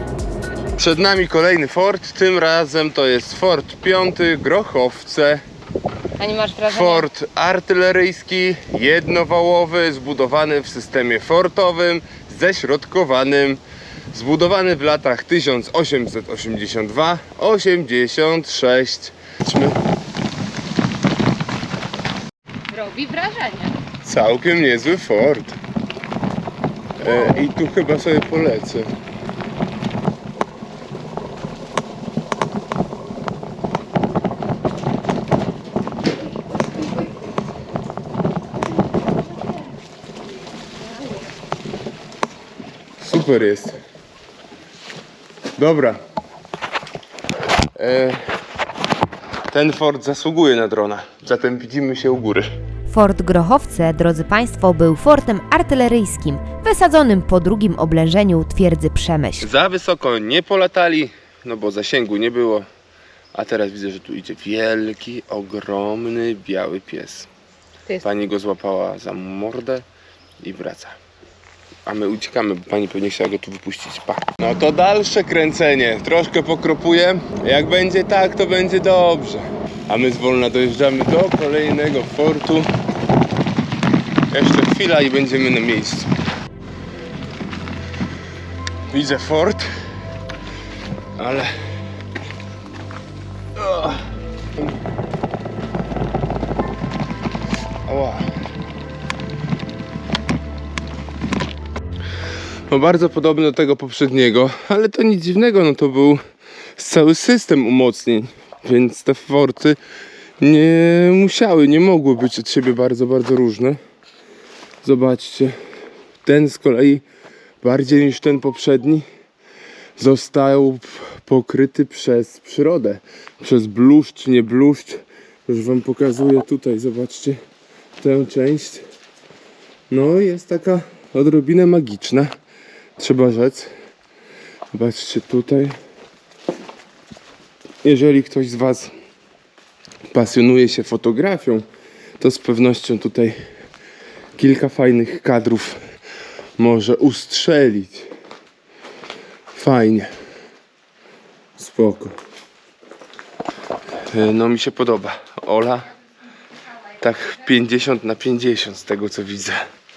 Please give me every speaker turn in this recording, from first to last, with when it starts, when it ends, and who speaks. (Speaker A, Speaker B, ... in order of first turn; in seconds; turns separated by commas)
Speaker A: 0.8-5.4, Speaker B: 6.2-7.0, Speaker A: 6.7-13.6, Speaker A: 14.1-19.8, Speaker B: 22.7-23.7, Speaker A: 24.1-25.6, Speaker A: 27.0-28.9, Speaker A: 43.0-43.8, Speaker A: 45.6-46.0, Speaker A: 47.8-48.2, Speaker A: 49.5-52.5, Speaker C: 52.9-59.5, Speaker A: 59.4-62.7, Speaker A: 63.3-67.3, Speaker A: 68.0-69.8, Speaker A: 70.4-71.0, Speaker A: 71.8-82.7, Speaker A: 84.3-86.1, Speaker A: 88.9-89.7, Speaker A: 91.2-91.5, Speaker A: 93.6-94.0, Speaker A: 97.9-98.3, Speaker A: 102.7-106.2, Speaker A: 106.8-109.8, Speaker A: 110.4-113.8, Speaker A: 114.8-115.6, Speaker A: 116.2-117.0, Speaker A: 117.6-119.1, Speaker A: 120.0-127.4, Speaker A: 128.0-128.8, Speaker A: 129.9-132.3, Speaker A: 133.0-133.7, Speaker A: 134.7-135.8, Speaker A: 137.8-138.9, Speaker A: 140.1-141.7, Speaker A: 142.2-143.3, Speaker A: 144.4-145.8, Speaker A: 146.6-148.1, Speaker A: 149.6-150.1, Speaker A: 151.6-152.2, Speaker A: 154.1-155.9, Speaker A: 157.0-159.6